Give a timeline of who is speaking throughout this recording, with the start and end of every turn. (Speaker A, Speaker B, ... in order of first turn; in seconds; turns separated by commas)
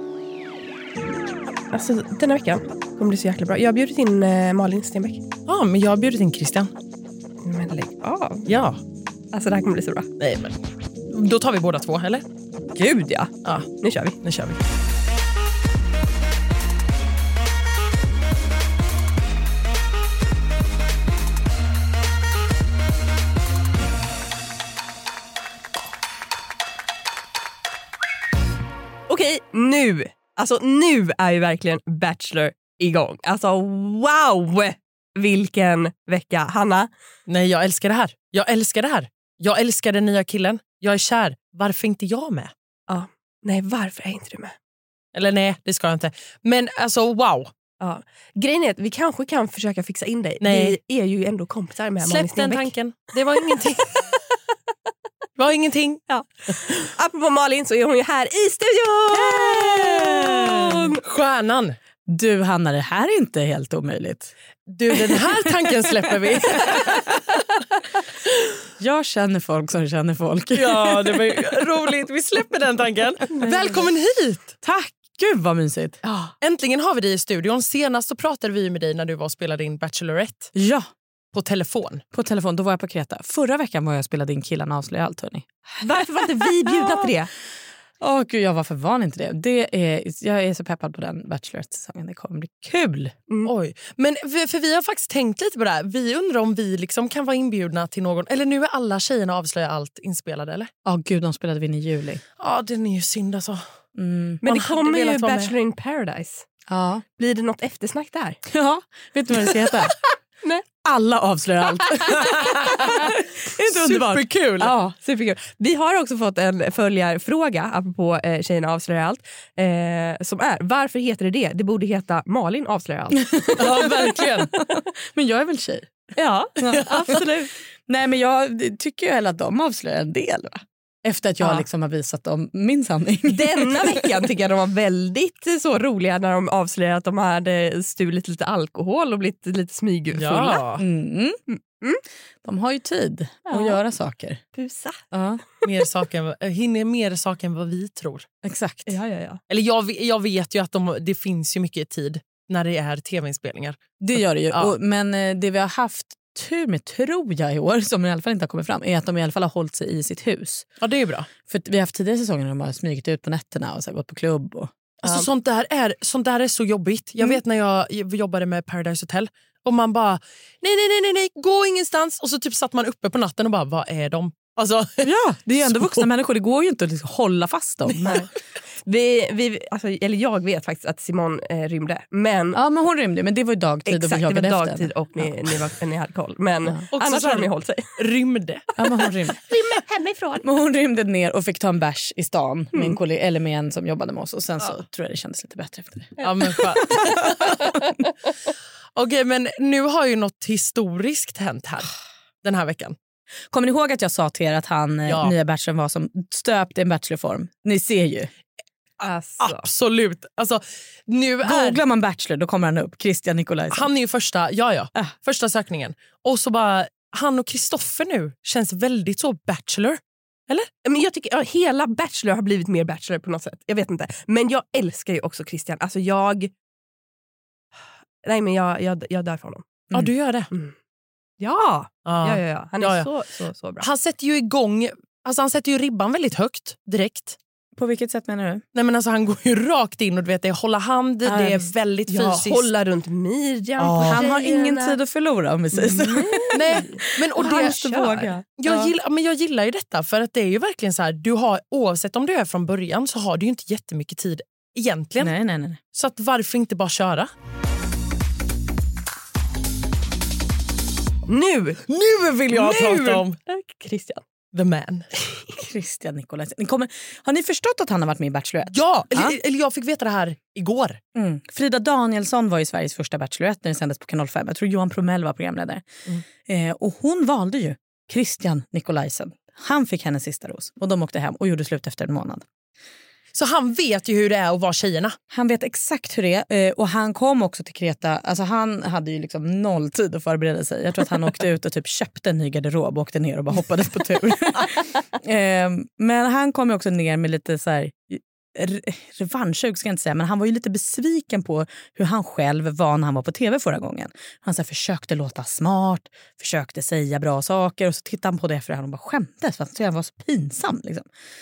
Speaker A: 1.7-5.2, Speaker B: 5.5-6.7, Speaker A: 7.4-8.5, Speaker B: 8.5-8.8, Speaker A: 9.3-10.1, Speaker B: 10.2-10.6, Speaker B: 11.1-12.2, Speaker A: 12.7-14.2, Speaker B: 14.2-14.6, Speaker A: 29.1-36.9, Speaker B: 37.3-42.5, Speaker A: 42.9-44.5, Speaker B: 45.1-47.5, Speaker A: 47.8-52.7, Speaker B: 50.4-50.8, Speaker B: 52.0-54.0, Speaker B: 55.4-56.0, Speaker A: 56.1-61.0, Speaker C: 59.1-60.8, Speaker B: 61.0-61.8, Speaker C: 62.1-64.3, Speaker B: 64.7-67.2, Speaker C: 64.9-65.5, Speaker C: 68.8-71.6, Speaker B: 70.5-74.5, Speaker C: 73.4-73.9, Speaker C: 74.6-76.0, Speaker B: 76.4-80.5, Speaker C: 80.5-80.9, Speaker B: 81.3-82.0, Speaker C: 82.1-87.1, Speaker A: 85.8-87.3, Speaker C: 88.0-93.2, Speaker B: 93.5-100.7, Speaker C: 100.8-102.2, Speaker B: 102.4-103.6, Speaker C: 104.0-104.4, Speaker A: 104.4-106.5, Speaker B: 104.5-105.5, Speaker C: 106.7-107.0, Speaker A: 107.2-108.4, Speaker C: 108.5-110.0, Speaker C: 110.8-115.0, Speaker A: 111.9-112.6, Speaker B: 112.2-114.7, Speaker A: 115.0-123.9, Speaker C: 123.2-127.2, Speaker B: 123.6-124.5, Speaker A: 126.2-127.5, Speaker C: 127.9-134.0, Speaker A: 133.3-140.6, Speaker B: 140.1-140.9, Speaker C: 140.8-141.6, Speaker C: 142.4-144.4, Speaker A: 143.5-143.8, Speaker A: 144.5-145.0, Speaker C: 145.1-145.4, Speaker B: 145.6-148.3, Speaker C: 148.4-148.9, Speaker A: 148.9-149.4, Speaker B: 149.5-154.7, Speaker C: 154.0-160.7, Speaker B: 160.8-161.3, Speaker C: 161.5-164.7, Speaker B: 165.0-175.1, Speaker C: 175.0-178.3, Speaker B: 175.6-176.1, Speaker A: 178.8-182.6, Speaker C: 182.5-185.6, Speaker A: 183.9-187.9, Speaker B: 186.9-188.7, Speaker C: 188.8-189.4, Speaker A: 189.5-190.4, Speaker C: 190.4-197.8, Speaker A: 196.2-196.4, Speaker B: 196.2-197.6, Speaker A: 197.1-197.3, Speaker B: 198.9-201.9, Speaker B: 202.4-202.9, Speaker C: 203.5-208.3, Speaker B: 205.1-205.3, Speaker A: 209.0-209.6, Speaker B: 209.4-211.8, Speaker C: 211.4-213.9, Speaker B: 213.7-220.7, Speaker A: 220.8-226.5, Speaker A: 228.2-229.7, Speaker B: 229.9-230.5, Speaker A: 231.4-233.9, Speaker B: 232.1-233.1, Speaker B: 233.8-237.4, Speaker C: 237.8-238.6, Speaker B: 238.7-242.7, Speaker C: 241.2-241.7, Speaker A: 242.1-245.0, Speaker C: 243.8-248.9, Speaker B: 243.8-244.2, Speaker A: 245.7-248.4, Speaker B: 246.5-247.8, Speaker B: 248.6-255.3, Speaker C: 255.2-255.8, Speaker B: 255.9-257.3, Speaker A: 261.3-261.8, Speaker B: 261.9-263.4, Speaker A: 262.5-264.2, Speaker B: 264.5-265.1, Speaker C: 265.6-269.4, Speaker B: 268.7-271.0, Speaker C: 271.1-275.9, Speaker C: 276.4-282.4, Speaker B: 283.3-285.2, Speaker C: 285.3-311.1